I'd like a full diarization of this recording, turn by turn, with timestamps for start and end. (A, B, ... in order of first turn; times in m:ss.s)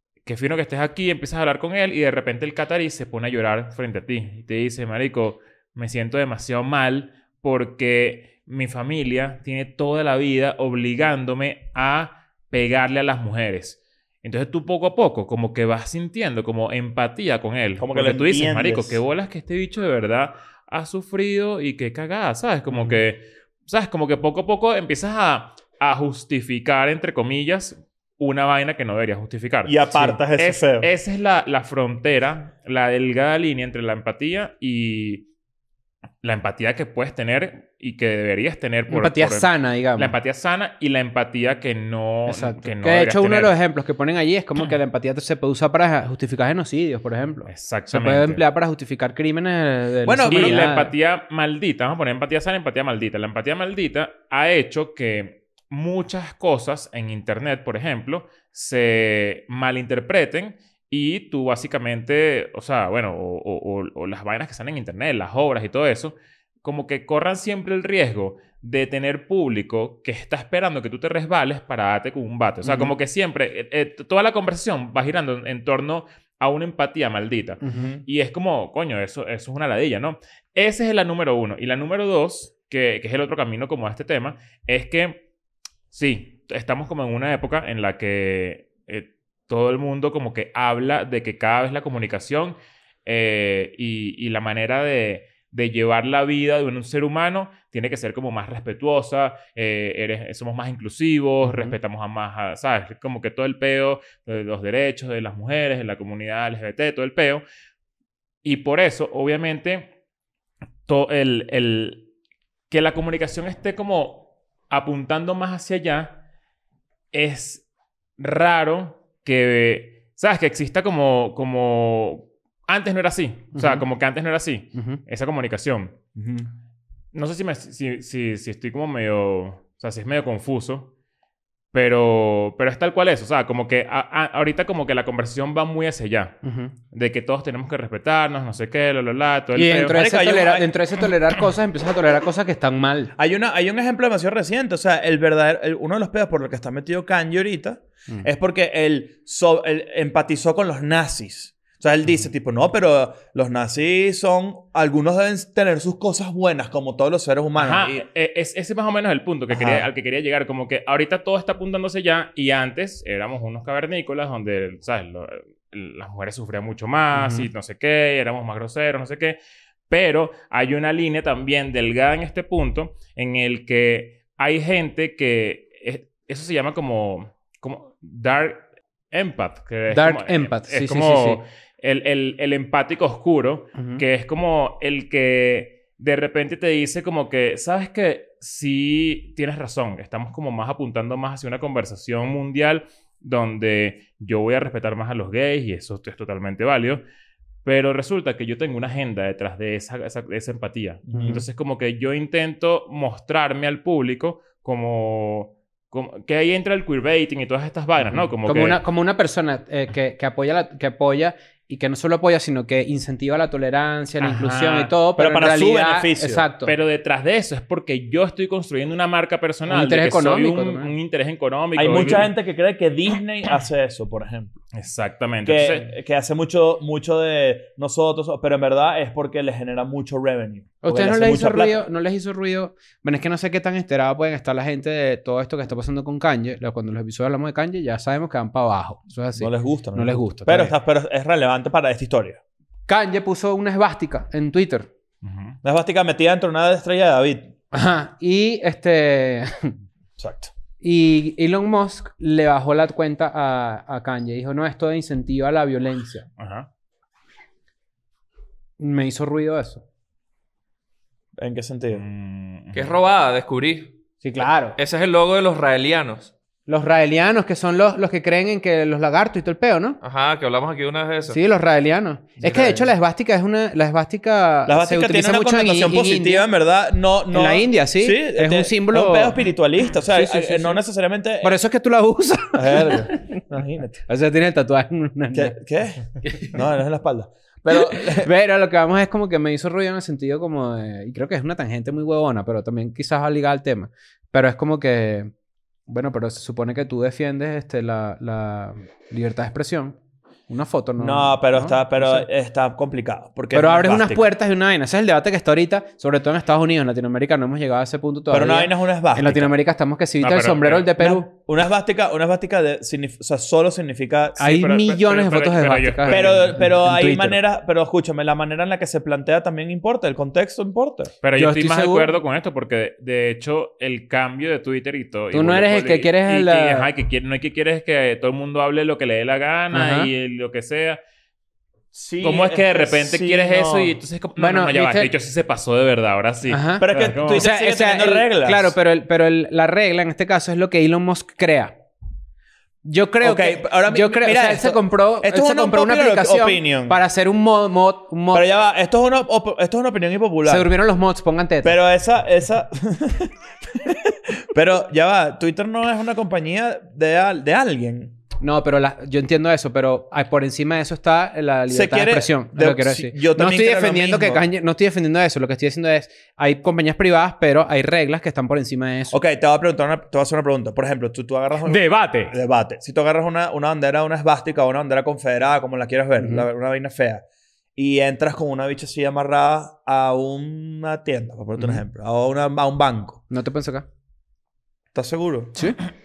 0:00.2-0:35.3 A
0:17.8-0:19.0 B
0:29.6-0:30.9 B
0:36.2-0:43.5 A
0:38.9-0:40.1 C
0:42.3-0:50.9 C
0:47.5-0:48.4 A
0:50.0-0:50.7 B
0:50.3-1:25.2 A
1:12.6-1:12.9 C
1:17.6-1:18.0 C
1:25.9-1:47.4 A
1:41.4-1:41.7 C
1:48.4-1:49.9 A
1:50.8-1:52.1 A
1:52.7-1:56.2 A
1:57.1-1:57.6 A
1:58.2-2:06.0 A
2:03.5-2:03.8 C
2:04.7-2:05.0 C
2:06.2-2:06.5 B
2:07.1-2:10.9 A
2:11.7-2:16.4 A
2:16.4-2:16.7 C
2:16.9-2:20.0 A
2:19.5-2:23.1 C
2:19.9-2:20.7 B
2:23.2-2:38.0 B
2:37.6-2:49.4 A
2:39.5-2:39.8 B
2:47.1-2:47.5 C
2:49.9-3:17.0 A
2:59.9-3:01.4 C
3:03.8-3:04.0 C
3:17.6-3:28.8 A
3:21.1-3:21.4 B
3:21.1-3:21.4 C
3:28.0-3:36.7 C
3:34.2-3:34.9 A
3:35.2-3:36.4 B
3:36.6-3:42.3 A
3:39.7-3:40.9 C
3:41.8-3:44.6 B
3:44.7-3:45.9 A
3:45.4-3:51.8 B
3:50.8-4:00.7 C
3:59.4-4:02.4 B
4:02.9-4:04.9 C
4:05.2-4:05.6 A
4:05.6-4:07.5 B
4:07.7-4:09.7 C
4:10.2-4:10.5 B
4:10.8-4:16.3 C
4:16.4-4:16.7 A
4:18.8-4:19.8 C
4:21.4-4:22.0 B
4:21.9-4:23.0 A
4:22.7-4:23.9 D
4:24.2-4:24.8 C
4:24.8-4:26.3 D
4:26.7-4:30.0 C
4:30.0-4:31.4 D
4:31.3-4:36.5 C
4:32.5-4:32.8 B
4:34.7-4:41.5 B
4:37.3-4:39.4 C
4:40.1-4:40.8 C
4:41.4-4:43.4 C
4:42.5-4:44.0 B
4:44.1-4:45.6 C
4:45.3-4:48.3 B
4:46.2-4:46.5 C
4:47.7-4:55.3 C
4:55.9-5:00.0 C
5:00.5-5:02.3 C
5:01.0-5:04.2 B
5:03.5-5:11.3 C
5:08.3-5:09.5 B
5:10.2-5:10.9 A
5:11.0-5:14.4 B
5:14.4-5:16.5 A
5:14.4-5:17.4 C
5:16.1-5:21.1 B
5:21.2-5:31.0 A
5:21.4-5:22.1 C
5:25.3-5:26.9 C
5:29.7-5:30.1 C
5:31.9-5:34.0 B
5:32.2-5:37.4 A
5:34.4-5:35.1 C
5:36.5-5:41.8 C
5:36.8-5:38.7 B
5:42.8-5:48.4 C
5:43.2-5:47.0 B
5:48.3-5:50.7 B
5:50.4-5:51.8 C
5:51.6-5:58.2 B
5:58.4-6:09.2 C
6:01.7-6:04.4 B
6:09.1-6:17.2 B
6:11.6-6:12.3 C
6:16.2-6:16.4 C
6:17.8-6:23.2 B
6:23.3-6:23.8 C
6:24.9-6:25.6 B